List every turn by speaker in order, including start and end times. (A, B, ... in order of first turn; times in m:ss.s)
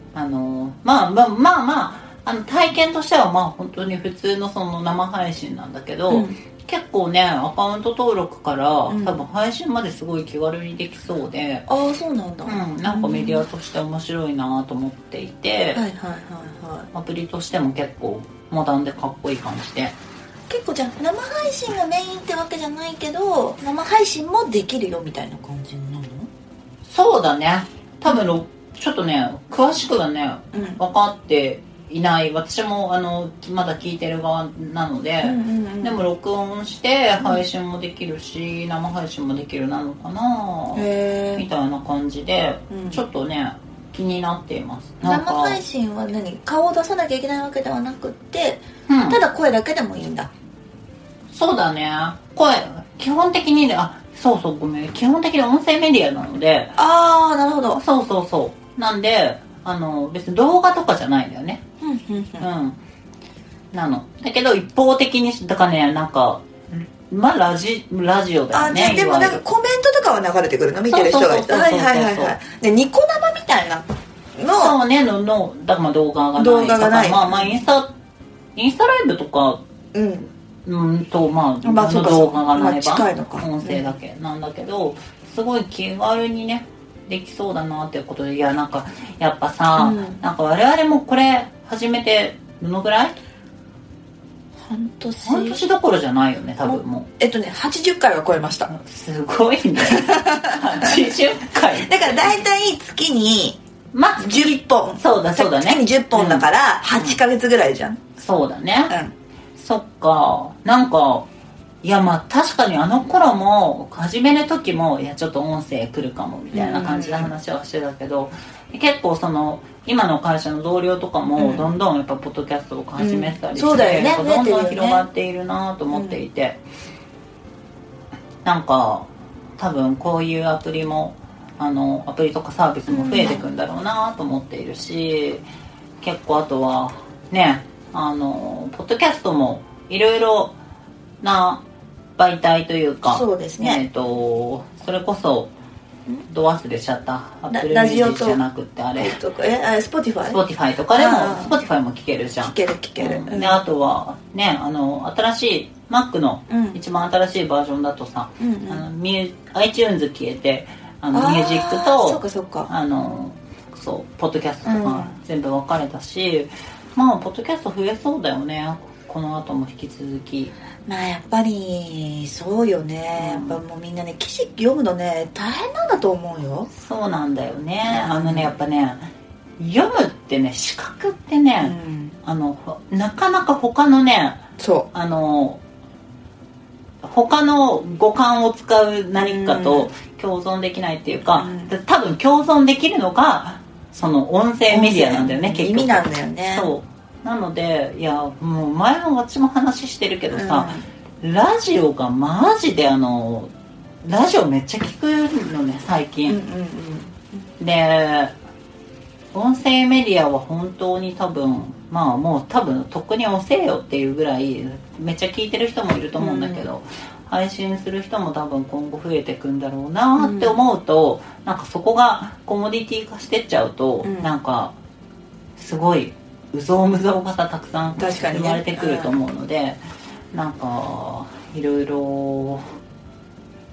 0:00.1-0:11.7 A
0:06.1-0:06.4 B
0:08.9-0:09.2 B
0:11.7-0:13.4 B
0:12.5-0:15.8 A
0:15.8-0:16.9 B
0:16.9-0:19.9 A
0:20.5-0:26.3 B
0:26.8-0:45.6 A
0:30.5-0:30.8 B
0:35.2-0:36.0 B
0:40.8-0:41.5 B
0:42.7-0:43.0 B
0:45.0-0:50.3 B
0:48.9-0:49.2 A
0:51.3-0:56.8 A
0:56.8-0:57.8 B
0:57.7-1:01.6 A
1:01.8-1:02.5 B
1:02.4-1:02.8 A
1:03.7-1:09.4 A
1:08.5-1:13.9 B
1:10.9-1:12.4 A
1:14.4-1:14.8 B
1:14.5-1:17.9 A
1:16.4-1:17.6 B
1:18.6-1:19.6 A
1:19.9-1:20.3 B
1:20.6-1:33.2 A
1:21.6-1:23.9 B
1:29.8-1:30.2 B
1:34.6-1:35.6 B
1:35.2-1:37.1 A
1:36.6-1:38.7 B
1:38.7-1:42.0 A
1:39.9-1:40.9 B
1:41.8-1:43.6 B
1:43.9-1:47.2 A
1:44.2-1:48.0 B
1:48.2-1:48.9 A
1:49.6-1:51.3 A
1:51.8-2:06.6 A
1:56.5-1:57.3 B
2:01.4-2:01.7 B
2:03.0-2:05.0 B
2:05.9-2:06.2 B
2:08.4-2:15.4 A
2:12.9-2:13.5 B
2:16.0-2:20.6 A
2:21.2-2:21.6 A
2:22.2-2:25.5 A
2:23.1-2:23.8 B
2:26.3-2:29.2 A
2:27.5-2:28.4 B
2:29.0-2:30.4 B
2:30.3-2:50.5 A
2:30.9-2:31.6 B
2:32.4-2:33.6 B
2:36.5-2:36.8 B
2:38.4-2:38.8 B
2:41.1-2:42.7 B
2:44.6-2:45.2 B
2:50.9-2:56.7 B
2:53.2-2:53.6 A
2:56.8-2:59.1 A
2:57.8-2:58.5 B
2:59.6-3:04.4 A
3:01.6-3:02.2 B
3:04.6-3:04.9 B
3:04.9-3:05.6 A
3:07.0-3:23.5 A
3:09.2-3:09.9 B
3:11.4-3:11.7 B
3:14.7-3:16.7 B
3:20.3-3:20.9 B
3:24.0-3:26.4 A
3:26.3-3:27.4 B
3:27.6-3:28.3 A
3:29.3-3:44.8 A
3:36.2-3:36.7 B
3:40.2-3:40.6 B
3:44.0-3:44.3 B
3:45.6-3:49.8 A
3:48.0-3:49.1 B
3:50.3-3:52.6 A